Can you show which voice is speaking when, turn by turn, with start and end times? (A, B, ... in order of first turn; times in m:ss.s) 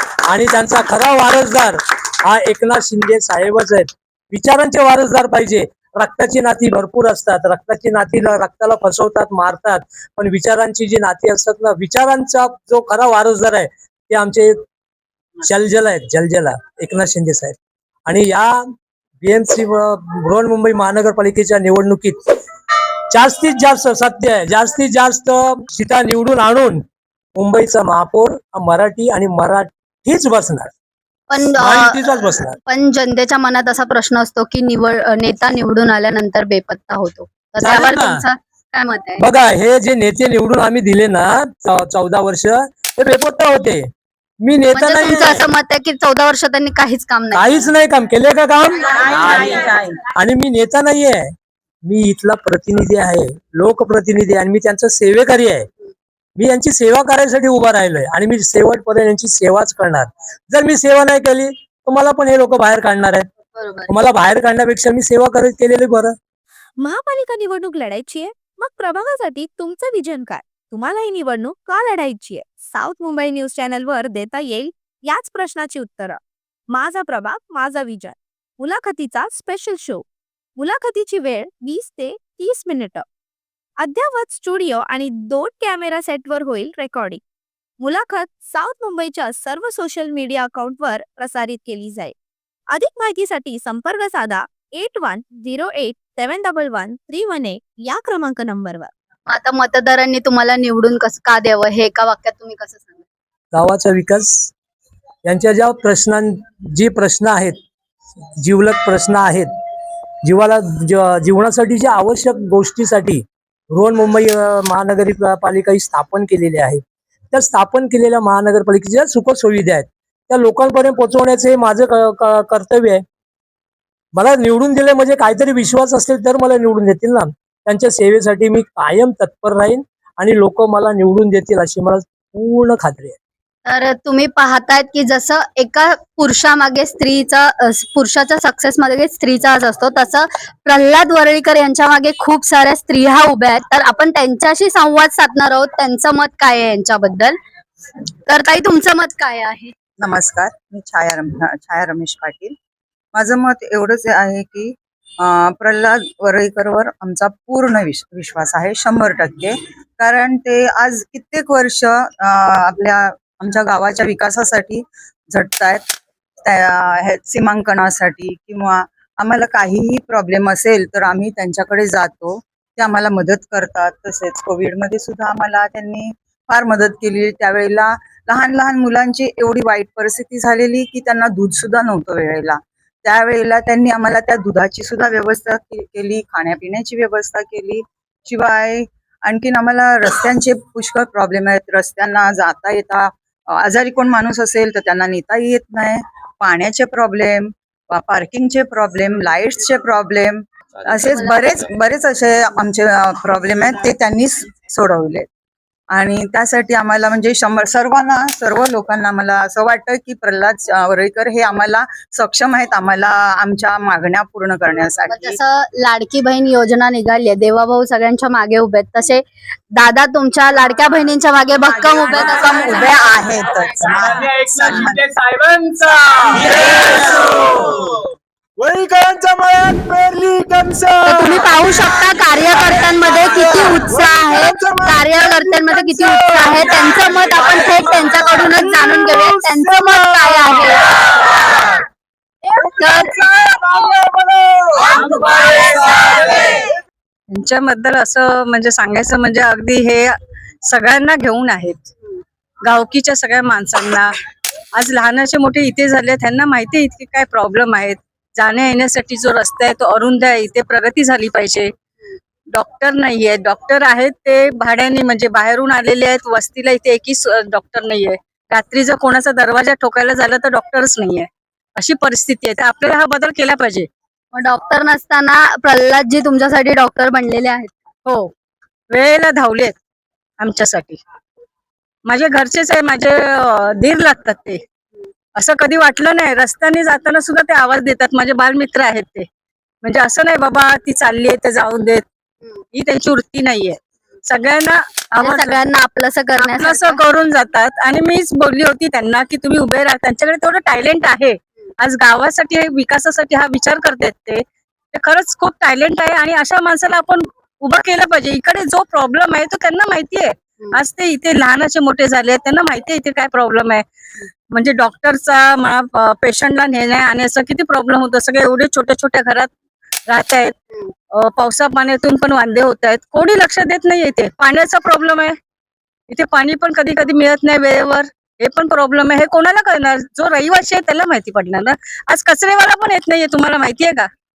0:00.2-0:14.6 A
0:15.4-0:22.2 A
0:23.1-0:26.8 A
0:27.4-0:30.7 A
0:31.3-0:39.2 B
0:31.5-0:32.6 A
0:37.6-0:38.2 A
0:39.2-0:43.9 A
0:44.4-0:45.4 A
0:44.7-0:47.7 B
0:47.3-0:51.3 A
0:51.8-0:55.7 A
0:56.4-1:03.3 A
1:03.5-1:03.9 B
1:03.9-1:06.1 A
1:06.8-1:20.0 C
1:20.6-1:23.0 C
1:23.8-1:27.2 C
1:27.8-1:32.1 C
1:32.7-1:38.9 C
1:39.3-1:43.0 B
1:43.5-1:44.5 A
1:45.2-1:47.6 A
1:48.4-1:49.5 A
1:50.2-2:03.0 A
2:04.2-2:13.2 A
2:13.6-2:27.4 B
2:28.3-2:29.7 B
2:30.0-2:32.6 D
2:33.1-3:25.3 D
3:25.9-3:35.4 D
3:35.1-3:39.2 B
3:39.8-3:43.0 B
3:42.0-3:45.0 D
3:46.4-3:47.4 E
3:48.6-3:51.2 E
3:51.0-4:01.0 B
3:53.4-3:56.6 E
3:59.3-4:00.3 E
4:02.6-4:03.2 B
4:02.8-4:04.9 E
4:07.3-4:11.8 F
4:12.6-4:14.2 F
4:14.8-4:21.7 F
4:22.5-4:33.9 F
4:34.3-4:37.8 B
4:38.0-4:38.3 F
4:38.9-4:39.8 F
4:40.4-4:41.0 F
4:42.1-4:44.6 F
4:45.3-4:49.3 F
4:49.8-4:52.0 F
4:52.7-4:55.6 F
4:55.2-4:57.0 B
4:56.4-5:13.8 F
5:14.5-5:19.5 F
5:20.1-5:20.5 F
5:21.1-5:25.4 F
5:26.1-5:34.1 F